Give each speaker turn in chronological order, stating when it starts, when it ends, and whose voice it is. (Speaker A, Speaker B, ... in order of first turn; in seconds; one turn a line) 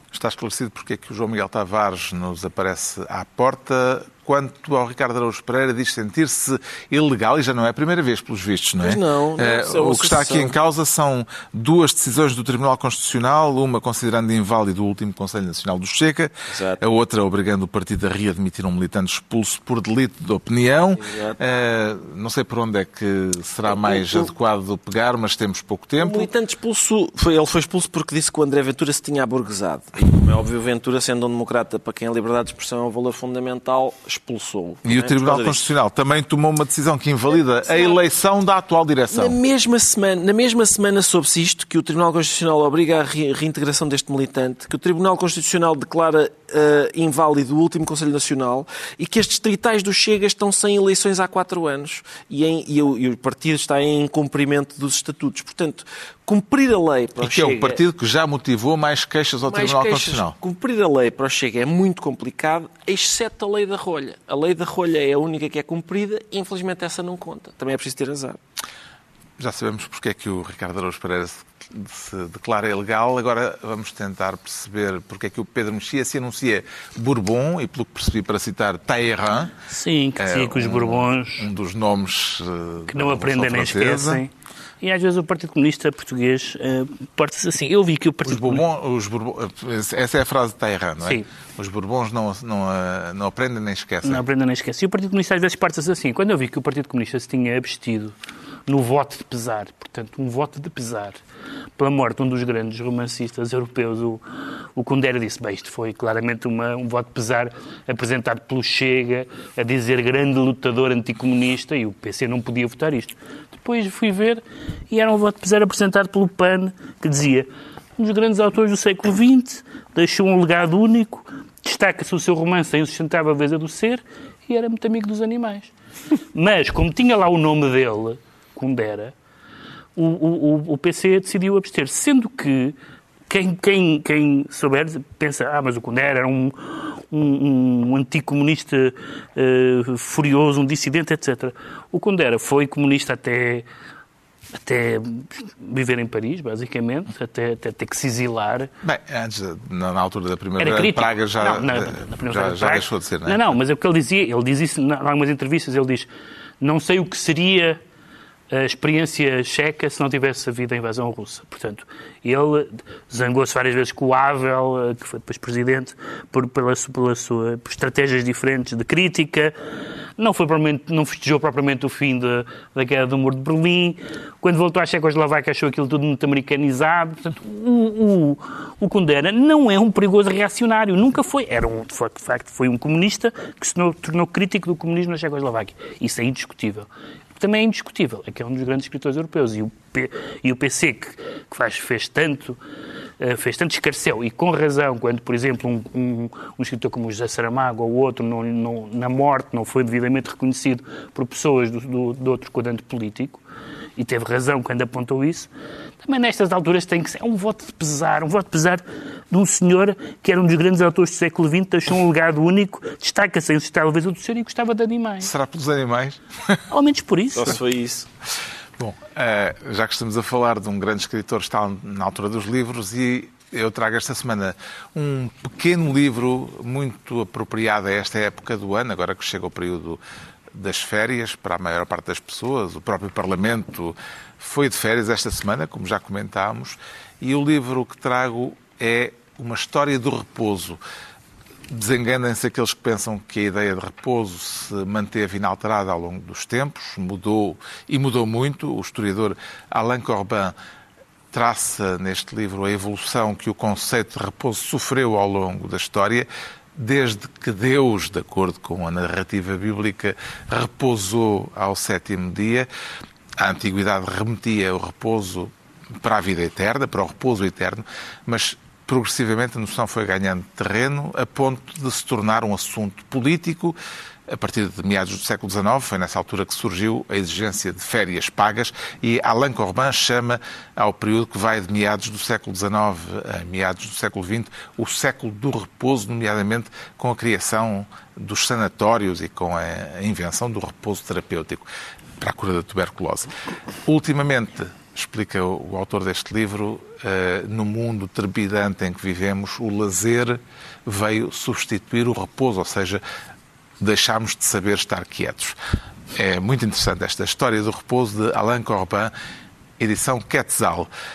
Speaker A: 0.1-26.3
Speaker B: 8.8-10.5
Speaker B: 16.5-16.8
Speaker B: 21.0-21.4
Speaker B: 23.7-24.3
Speaker B: 26.0-35.7
Speaker A: 34.9-39.4
Speaker B: 37.7-38.0
Speaker B: 39.1-57.8
Speaker A: 57.2-60.4
Speaker B: 59.5-68.4
Speaker A: 69.4-79.5
Speaker C: 79.7-81.5
Speaker A: 80.2-84.2
Speaker C: 82.9-84.3
Speaker C: 84.8-88.6
Speaker A: 88.2-94.2
Speaker C: 94.0-98.2
Speaker C: 98.7-101.2
Speaker C: 101.8-104.2
Speaker C: 104.8-117.5
Speaker C: 118.0-125.7
Speaker C: 126.3-129.1
Speaker C: 130.0-132.8
Speaker C: 133.3-143.7
Speaker C: 144.6-148.7
Speaker A: 148.8-153.5
Speaker C: 150.6-156.1
Speaker C: 156.6-157.8
Speaker C: 158.5-169.5
Speaker C: 170.2-192.6
Speaker C: 193.2-203.4
Speaker C: 204.0-205.5
Speaker C: 206.0-215.3
Speaker A: 215.2-216.6
Speaker C: 216.7-217.6
Speaker B: 217.3-218.1
Speaker A: 218.8-230.0
Speaker A: 230.5-240.8
Speaker A: 241.7-250.6
Speaker A: 251.3-262.7
Speaker A: 263.4-273.8
Speaker A: 274.3-291.7
Speaker A: 292.2-303.0
Speaker A: 303.8-305.6
Speaker A: 306.1-309.1
Speaker A: 309.8-310.9